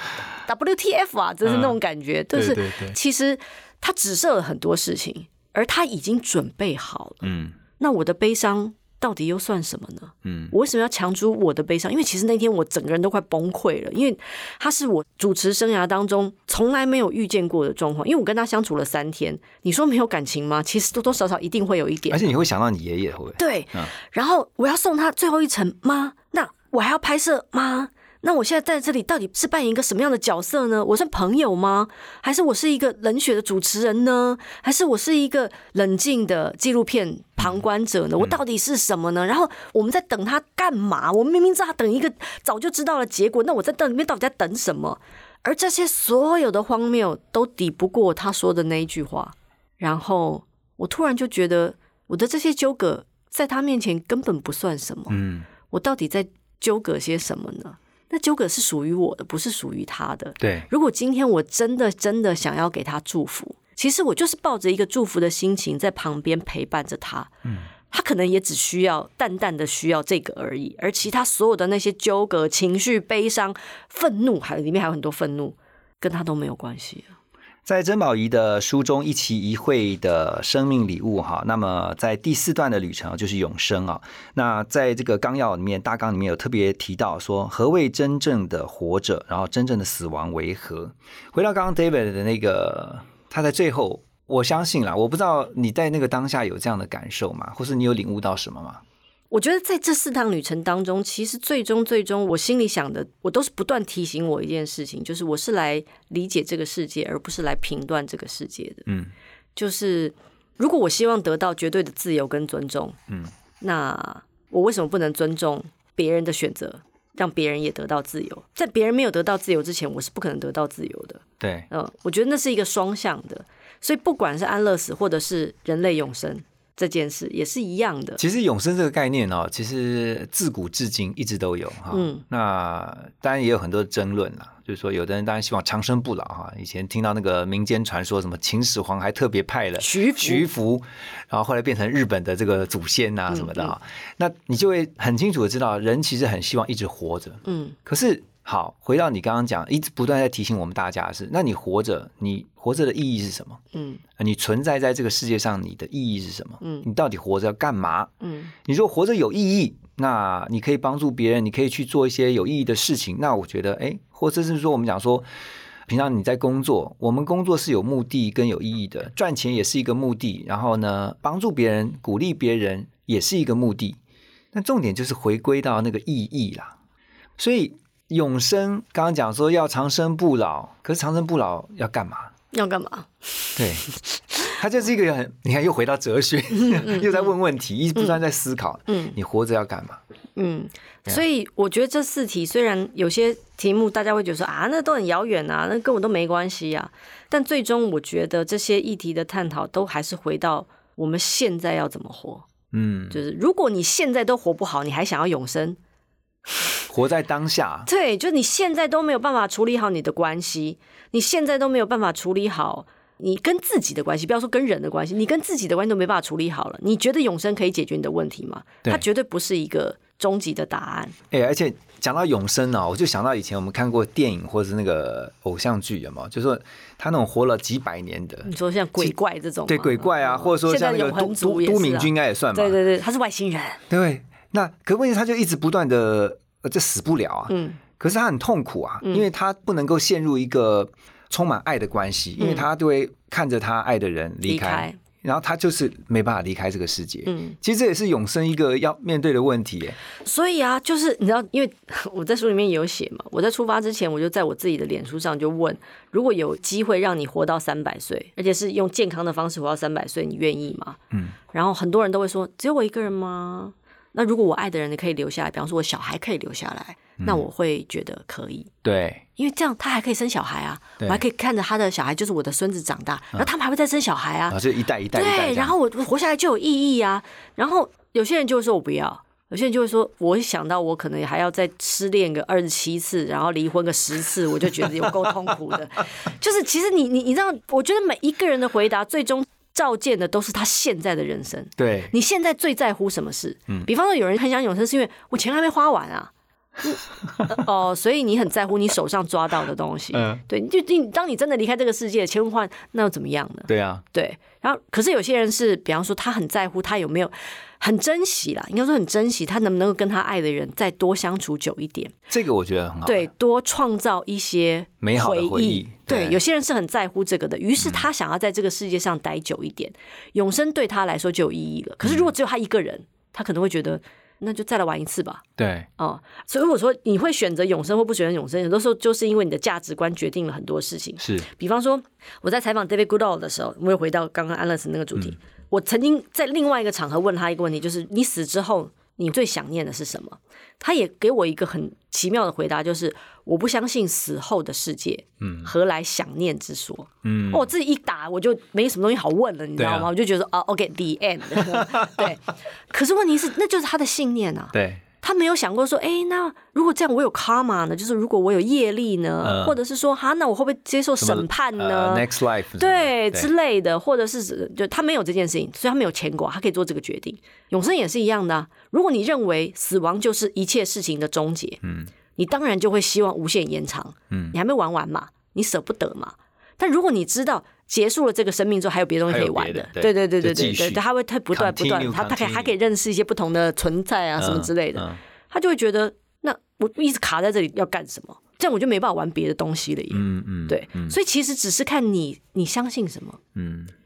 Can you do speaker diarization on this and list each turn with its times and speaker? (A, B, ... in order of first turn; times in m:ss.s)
0:00.4-0:22.3 A
0:01.4-0:01.8 B
0:02.3-0:03.0 B
0:07.2-0:07.6 B
0:10.2-0:10.5 B
0:22.1-0:23.9 B
0:23.4-1:07.3 A
0:55.1-0:55.5 B
1:00.4-1:00.7 B
1:07.9-1:17.1 A
1:17.6-1:38.8 B
1:39.3-1:48.9 A
1:48.9-1:49.1 B
1:49.6-1:53.0 A
1:53.6-2:08.2 A
2:01.4-2:01.7 B
2:08.2-2:33.6 B
2:11.9-2:12.2 A
2:19.8-2:20.5 A
2:23.3-2:23.7 A
2:27.4-2:27.8 A
2:33.7-2:34.0 A
2:34.2-2:38.1 B
2:36.6-2:36.8 A
2:38.2-2:38.5 A
2:38.6-2:45.2 B
2:45.8-2:54.0 B
2:54.5-2:56.7 B
2:57.4-3:02.3 B
3:02.5-3:03.6 A
3:03.6-3:03.9 B
3:04.4-3:10.0 B
3:06.6-3:07.3 A
3:08.9-3:09.2 A
3:10.4-3:22.5 A
3:22.7-3:23.2 B
3:23.1-3:25.8 A
3:26.5-3:26.8 A
3:26.9-3:27.9 B
3:27.8-3:41.1 A
3:41.3-3:49.1 B
3:48.4-3:53.8 A
3:49.7-3:52.8 B
3:53.9-4:10.0 B
3:57.5-3:57.8 A
4:02.4-4:02.6 A
4:04.4-4:05.0 A
4:07.2-4:07.6 A
4:10.2-4:28.7 A
4:27.2-4:27.4 B
4:28.8-4:29.2 B
4:29.4-4:34.6 A
4:34.5-4:35.7 B
4:35.1-4:56.3 A
4:44.8-4:45.0 B
4:51.8-4:52.1 B
4:56.8-5:12.2 A
5:00.1-5:00.4 B
5:03.7-5:04.0 B
5:12.3-5:13.3 B
5:13.0-5:25.4 A
5:15.0-5:16.4 B
5:17.8-5:18.1 B
5:22.0-5:22.3 B
5:25.6-5:25.9 B
5:26.0-6:11.8 A
5:31.2-5:31.5 B
5:45.4-5:45.7 B
5:47.2-5:47.7 B
5:49.8-5:50.1 B
5:51.6-5:52.2 B
5:54.7-5:55.0 B
5:59.4-5:59.8 B
6:01.2-6:03.5 B
6:11.8-6:12.1 B
6:12.4-6:33.4 A
6:14.3-6:14.6 B
6:19.3-6:22.7 B
6:24.4-6:25.2 B
6:30.1-6:31.2 B
6:33.5-6:33.9 B